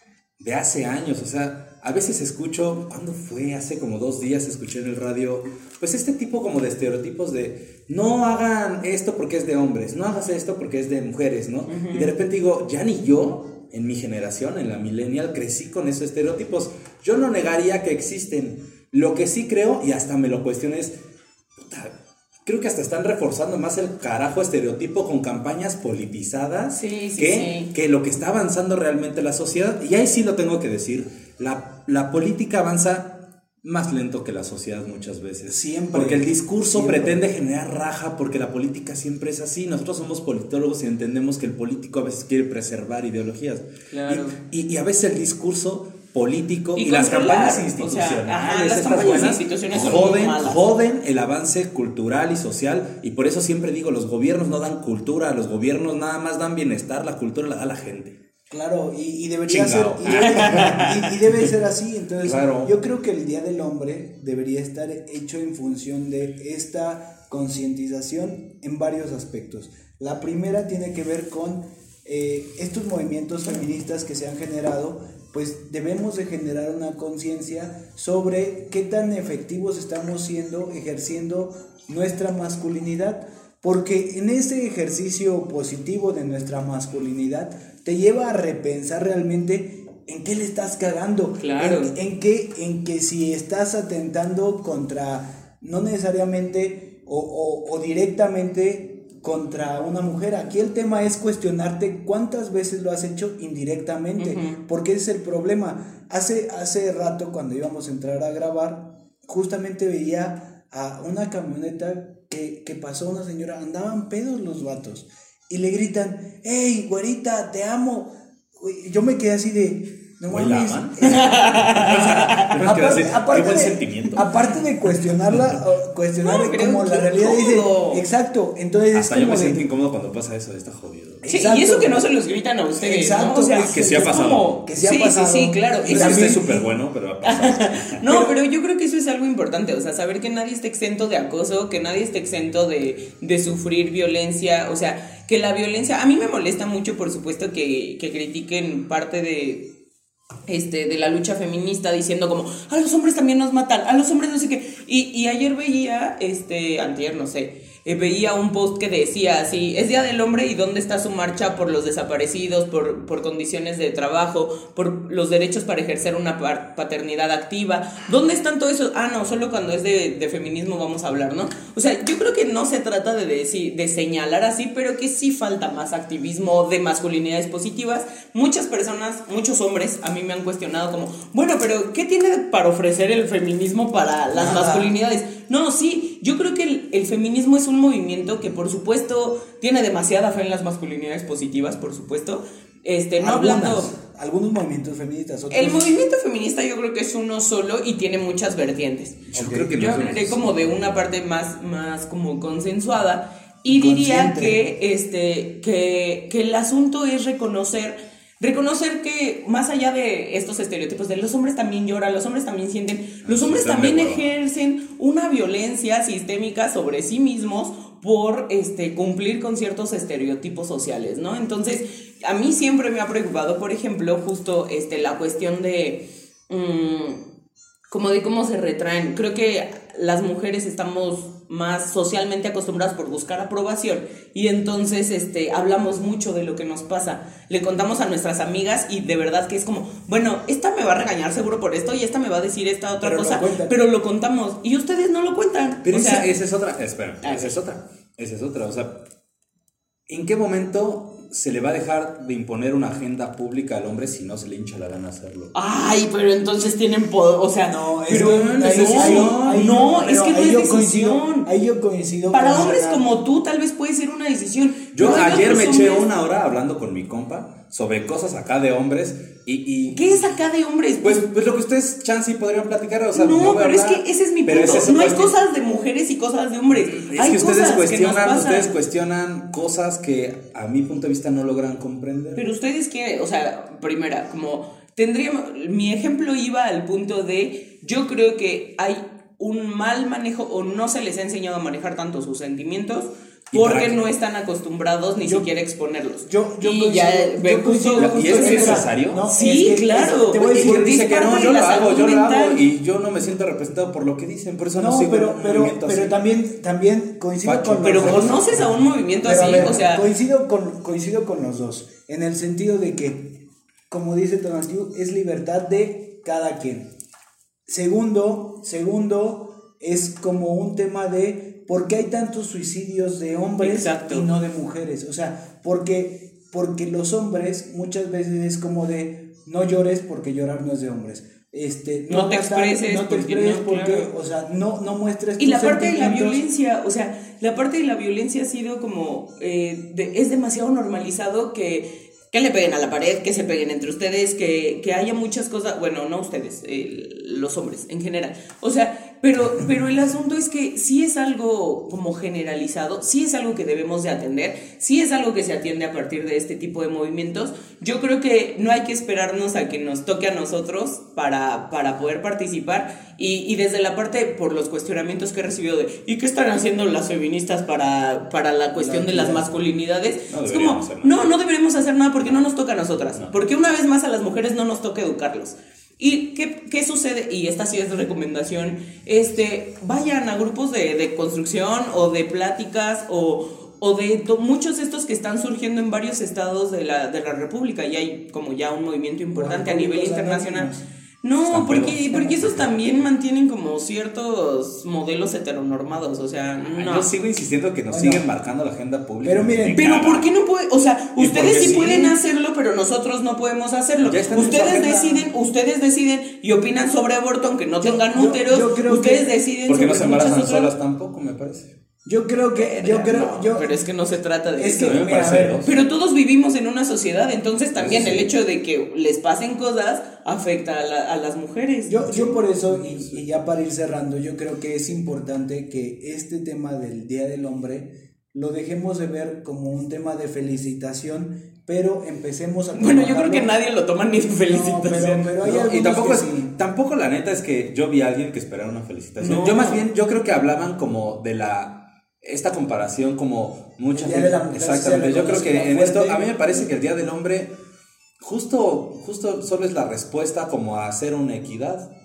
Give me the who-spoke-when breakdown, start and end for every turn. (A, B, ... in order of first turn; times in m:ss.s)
0:00.4-0:21.0 A
0:11.7-0:12.1 B
0:21.6-0:21.9 A
0:22.4-0:58.2 A
0:26.7-0:27.7 B
0:35.5-0:37.2 C
0:43.9-0:44.4 B
0:46.8-0:50.6 B
0:58.5-2:09.6 C
0:59.5-1:00.9 A
1:00.1-1:01.1 B
1:02.2-1:02.7 A
1:31.4-1:31.9 B
1:44.2-1:44.6 B
2:00.3-2:04.2 A
2:01.0-2:02.5 B
2:06.2-2:08.0 B
2:08.9-2:11.2 A
2:11.2-2:12.1 C
2:11.3-2:16.4 B
2:12.8-2:16.7 C
2:13.6-2:14.6 A
2:15.8-2:18.0 A
2:17.2-2:29.7 B
2:30.5-3:13.9 B
3:04.3-3:04.9 C
3:13.2-3:15.8 C
3:15.5-3:47.2 B
3:19.3-3:21.0 A
3:19.3-3:19.7 C
3:23.6-3:24.6 C
3:33.2-3:34.2 A
3:47.9-4:06.3 B
4:03.0-4:03.8 C
4:05.8-4:09.0 A
4:07.2-4:07.6 B
4:10.1-4:15.5 A
4:15.5-4:21.5 B
4:17.6-4:23.0 C
4:18.6-4:19.6 A
4:22.3-4:26.1 B
4:24.9-4:30.3 A
4:29.9-4:31.3 B
4:31.0-4:35.3 A
4:33.1-4:38.7 B
4:36.7-4:42.4 A
4:42.4-5:02.6 B
4:53.5-4:54.0 A
4:55.2-4:55.5 C
4:56.2-5:01.1 C
4:58.0-4:59.2 A
5:00.4-5:06.1 A
5:04.8-5:13.4 C
5:07.4-5:08.8 A
5:07.8-5:10.0 B
5:13.9-5:16.9 C
5:17.7-5:36.4 C
5:23.6-5:24.3 B
5:32.1-5:34.1 B
5:35.4-6:37.1 B
6:08.7-6:09.4 C
6:10.3-6:11.3 A
6:29.3-6:30.8 C
6:31.4-6:32.6 A
6:36.6-6:40.3 A
6:37.9-6:38.2 C
6:39.2-6:39.8 C
6:39.7-6:50.7 B
6:41.2-6:42.1 A
6:44.0-6:44.9 A
6:44.3-6:45.3 C
6:47.8-6:49.3 C
6:49.7-6:51.7 A
6:52.0-6:53.8 C
6:52.6-6:55.0 B
6:54.6-6:55.7 C
6:54.8-6:55.7 A
6:55.6-7:02.4 B
6:57.8-6:58.3 A
7:01.9-7:13.5 C
7:02.7-7:03.2 A
7:12.7-7:15.3 B
7:14.5-7:16.5 C
7:15.4-7:27.5 A
7:19.2-7:19.8 B
7:23.9-7:26.7 C
7:28.2-7:31.9 A